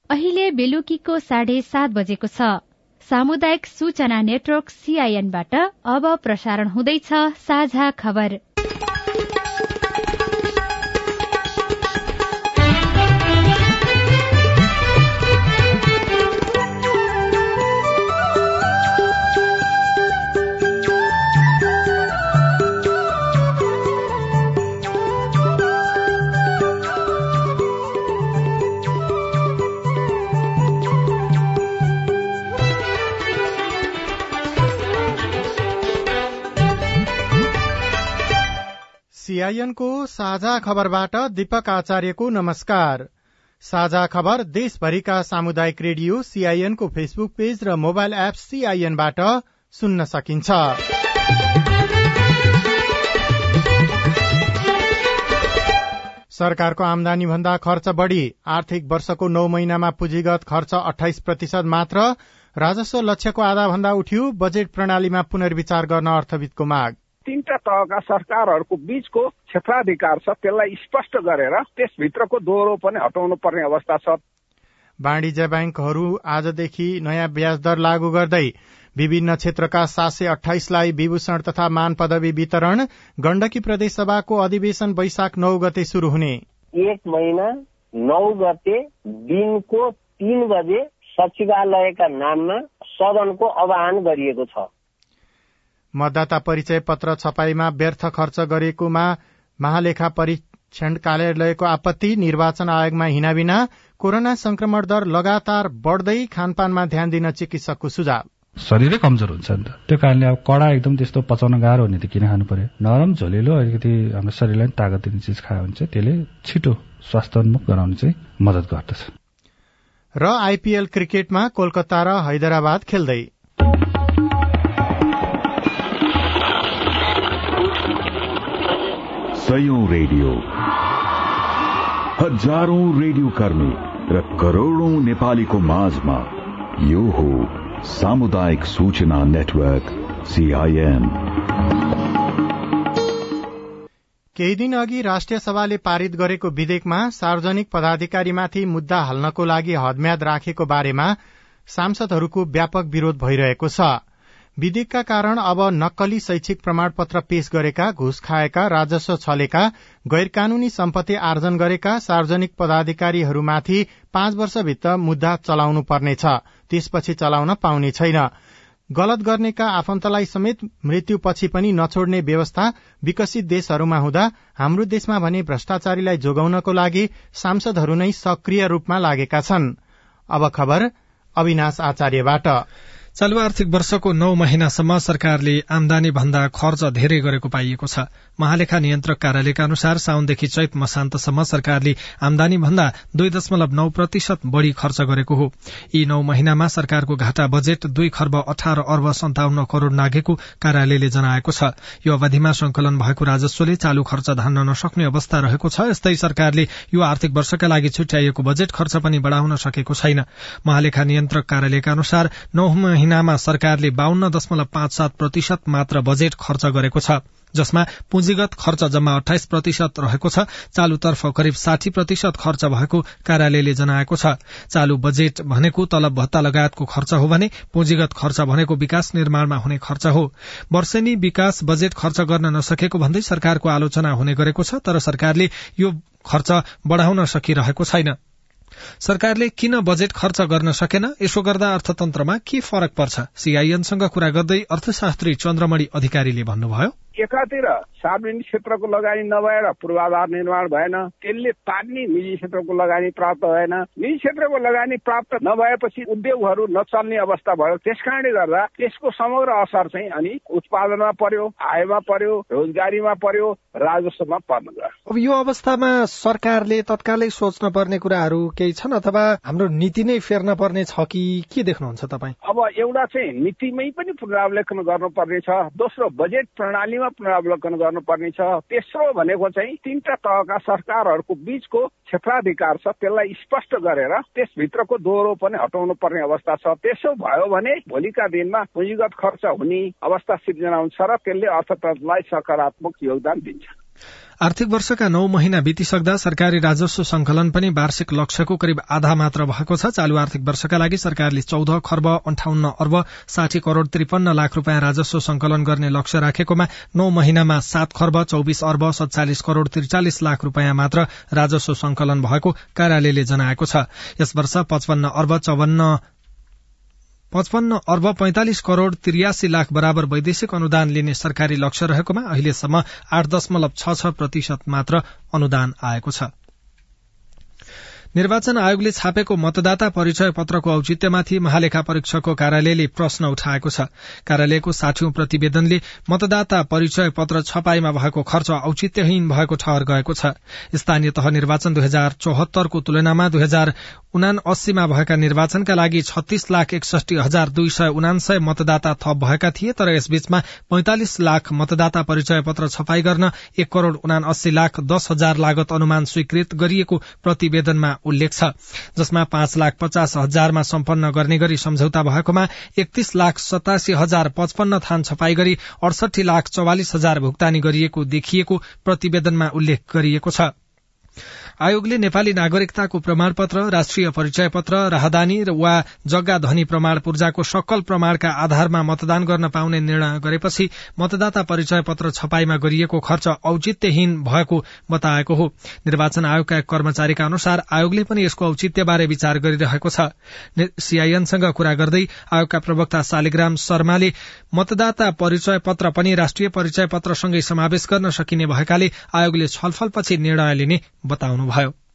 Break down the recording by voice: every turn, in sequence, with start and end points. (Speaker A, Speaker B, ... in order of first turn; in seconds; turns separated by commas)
Speaker A: 0.1-8.4, Speaker B: 39.1-43.1, Speaker B: 43.6-50.8, Speaker B: 56.3-67.0, Speaker C: 67.3-74.2, Speaker B: 75.0-86.4, Speaker D: 86.8-87.5, Speaker D: 88.0-94.7, Speaker B: 96.0-108.2, Speaker E: 108.6-119.1, Speaker B: 120.2-123.3, Speaker F: 129.3-130.5, Speaker F: 132.2-141.2, Speaker B: 144.4-151.2, Speaker B: 151.7-154.0, Speaker B: 154.6-168.3, Speaker B: 168.9-179.8, Speaker B: 180.3-182.7, Speaker G: 183.2-238.2, Speaker G: 239.0-246.9, Speaker C: 247.2-264.9, Speaker G: 265.1-272.3, Speaker C: 272.4-293.7, Speaker G: 294.4-316.0, Speaker G: 317.3-326.3, Speaker G: 328.1-370.5, Speaker G: 371.6-401.7